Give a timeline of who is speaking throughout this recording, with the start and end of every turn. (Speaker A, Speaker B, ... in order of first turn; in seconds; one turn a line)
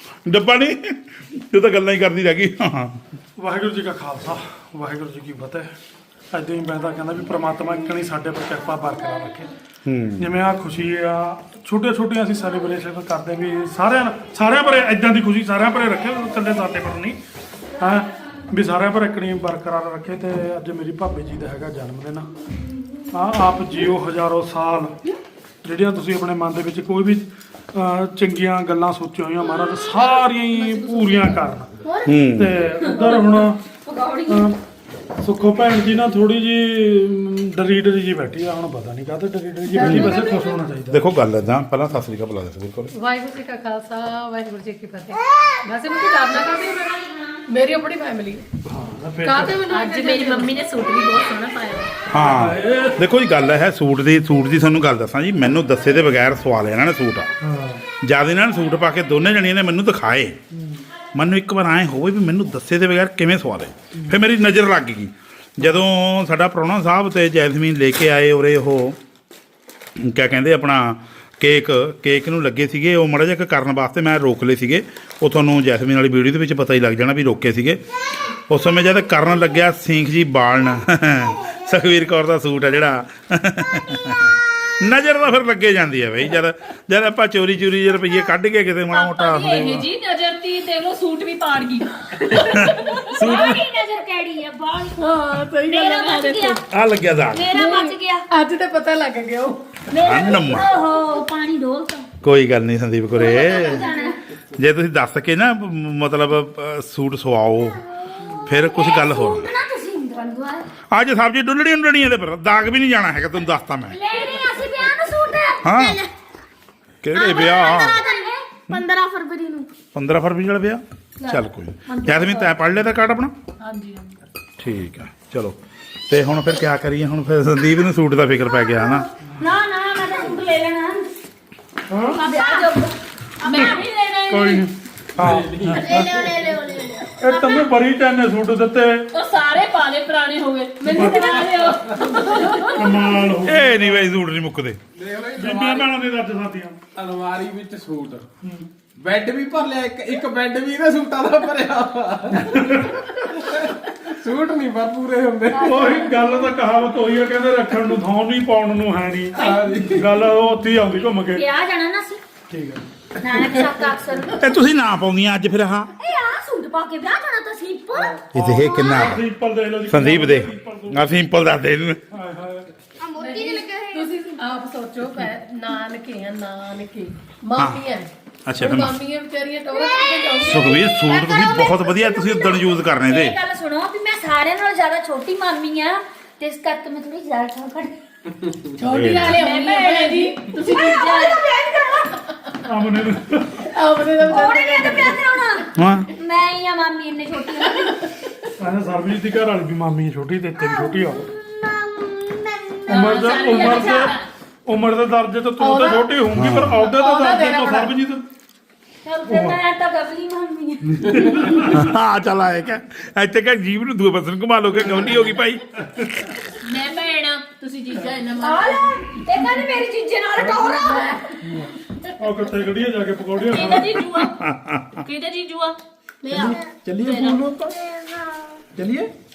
Speaker A: 0.2-3.0
Speaker B: 3.4-5.7
Speaker B: 6.3-9.5
Speaker A: 9.8-10.3
Speaker B: 10.2-17.2
Speaker B: 17.8-22.3
Speaker B: 23.1-25.0
Speaker B: 25.6-31.7
Speaker C: 30.6-31.3
Speaker D: 31.9-32.2
Speaker A: 32.0-32.6
Speaker B: 32.3-33.6
Speaker E: 32.9-34.5
Speaker B: 34.3-34.6
Speaker B: 35.2-41.0
Speaker C: 39.7-40.6
Speaker A: 39.8-40.2
Speaker A: 40.9-42.9
Speaker C: 42.9-46.9
Speaker E: 46.3-47.5
Speaker C: 47.5-48.5
Speaker B: 48.7-49.6
Speaker C: 49.2-50.5
Speaker F: 49.7-51.9
Speaker A: 52.1-57.3
Speaker B: 52.1-53.0
Speaker B: 57.4-57.9
Speaker A: 57.9-60.4
Speaker B: 60.5-60.8
Speaker A: 61.1-69.0
Speaker A: 70.0-89.9
Speaker F: 88.9-93.2
Speaker A: 92.3-93.6
Speaker E: 92.9-96.6
Speaker C: 95.0-96.0
Speaker F: 95.5-96.6
Speaker A: 96.7-97.5
Speaker E: 97.3-98.3
Speaker C: 97.5-99.6
Speaker E: 99.9-102.1
Speaker A: 100.0-100.7
Speaker A: 102.2-103.9
Speaker E: 103.1-104.2
Speaker A: 104.5-107.8
Speaker E: 108.4-110.7
Speaker A: 108.5-109.5
Speaker A: 110.9-114.0
Speaker E: 113.9-115.7
Speaker A: 115.6-116.0
Speaker D: 115.7-116.1
Speaker A: 117.0-118.0
Speaker D: 117.1-119.7
Speaker E: 117.2-118.4
Speaker A: 119.9-123.3
Speaker E: 121.2-122.5
Speaker F: 123.6-124.2
Speaker A: 124.6-125.6
Speaker A: 126.1-129.1
Speaker E: 129.4-131.1
Speaker B: 131.9-132.2
Speaker E: 132.1-134.7
Speaker F: 132.2-133.9
Speaker B: 134.3-136.1
Speaker A: 135.2-135.4
Speaker G: 135.2-136.1
Speaker D: 135.8-137.2
Speaker B: 137.2-139.1
Speaker F: 137.3-137.7
Speaker F: 139.1-143.0
Speaker B: 140.8-141.7
Speaker E: 141.0-141.4
Speaker B: 142.7-143.8
Speaker A: 143.4-144.8
Speaker G: 144.9-145.9
Speaker B: 145.4-146.8
Speaker G: 147.0-148.3
Speaker G: 149.0-152.8
Speaker B: 152.3-153.1
Speaker G: 153.3-156.2
Speaker B: 155.6-161.4
Speaker E: 155.8-156.1
Speaker G: 159.4-160.4
Speaker E: 161.3-162.2
Speaker B: 162.5-162.8
Speaker E: 163.2-164.4
Speaker A: 164.4-165.9
Speaker E: 166.0-168.2
Speaker A: 168.3-169.2
Speaker B: 168.3-171.2
Speaker A: 169.9-172.0
Speaker B: 172.1-172.7
Speaker D: 173.0-174.2
Speaker C: 173.2-181.0
Speaker A: 177.6-177.8
Speaker A: 178.5-179.0
Speaker E: 180.0-180.4
Speaker A: 180.4-183.4
Speaker D: 180.9-182.7
Speaker E: 182.9-187.9
Speaker C: 188.8-190.6
Speaker A: 188.8-189.4
Speaker E: 189.2-192.2
Speaker F: 190.4-191.4
Speaker B: 192.7-193.7
Speaker C: 193.7-195.6
Speaker E: 194.3-198.0
Speaker A: 195.8-196.1
Speaker C: 197.8-198.1
Speaker B: 198.6-201.3
Speaker D: 200.7-202.9
Speaker F: 202.9-204.3
Speaker B: 202.9-208.2
Speaker C: 205.6-206.1
Speaker A: 206.3-206.8
Speaker C: 206.8-207.9
Speaker E: 209.1-211.7
Speaker B: 209.3-209.6
Speaker B: 211.0-211.9
Speaker A: 211.6-216.3
Speaker F: 216.6-219.2
Speaker E: 218.4-221.2
Speaker B: 220.5-220.7
Speaker C: 220.7-221.3
Speaker B: 221.4-224.1
Speaker F: 223.5-224.4
Speaker A: 224.2-225.0
Speaker F: 225.0-227.5
Speaker G: 226.3-227.8
Speaker D: 226.4-226.7
Speaker D: 227.7-228.6
Speaker G: 228.7-229.1